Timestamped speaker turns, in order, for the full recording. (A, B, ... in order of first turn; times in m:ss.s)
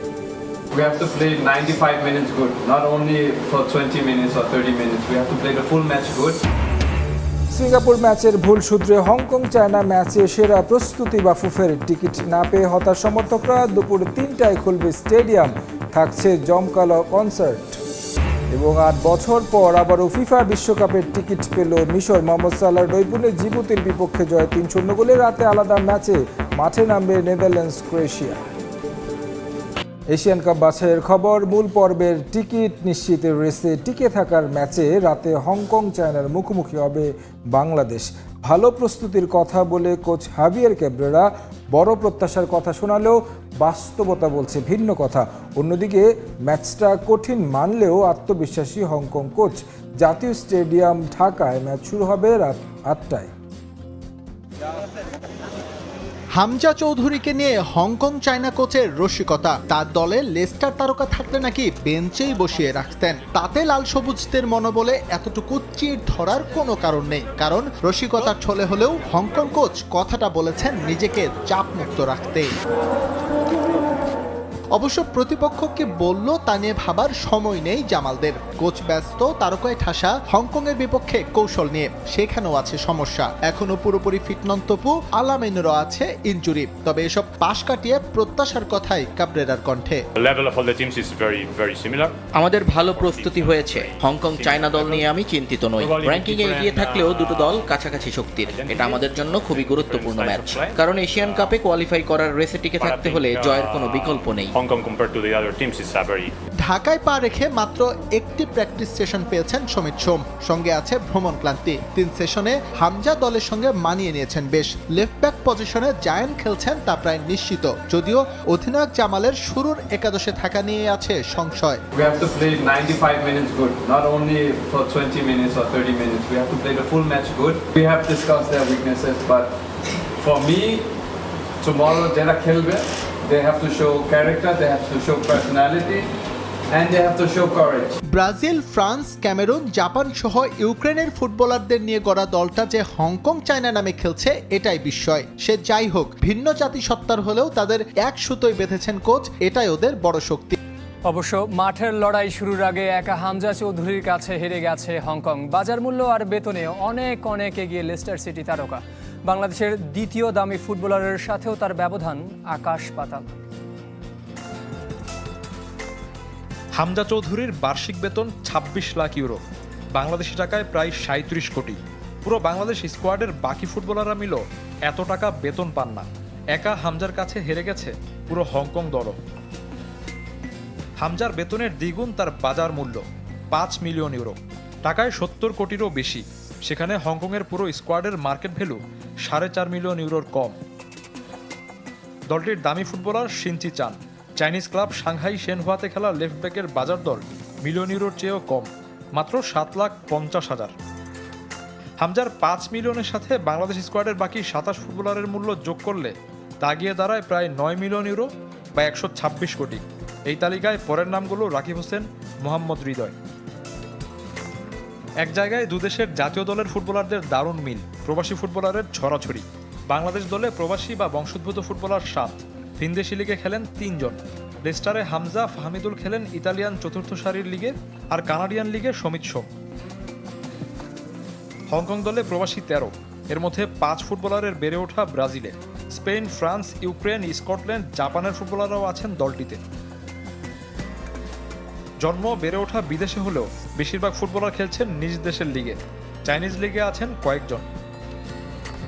0:00.7-0:06.4 A
0:07.5-0:17.8 B
0:18.5-0:28.4 B
0:30.1-0:53.3 B
0:56.3-1:12.5 C
1:14.7-1:30.0 C
1:30.2-1:32.2 D
1:32.3-1:44.6 E
1:32.9-1:35.0 D
1:35.8-1:37.6 D
1:38.5-1:41.5 D
1:42.8-1:46.3 D
1:46.6-2:01.8 C
2:01.9-2:09.5 A
2:10.2-2:10.8 A
2:11.6-2:16.1 A
2:16.7-2:18.0 A
2:18.1-2:30.6 C
2:31.1-2:43.2 F
2:46.8-2:49.4 G
2:49.9-2:59.2 G
3:01.0-3:10.6 G
3:12.3-3:20.7 G
3:22.0-3:33.2 G
3:35.2-3:49.5 G
3:51.7-3:59.6 G
4:02.0-4:07.7 G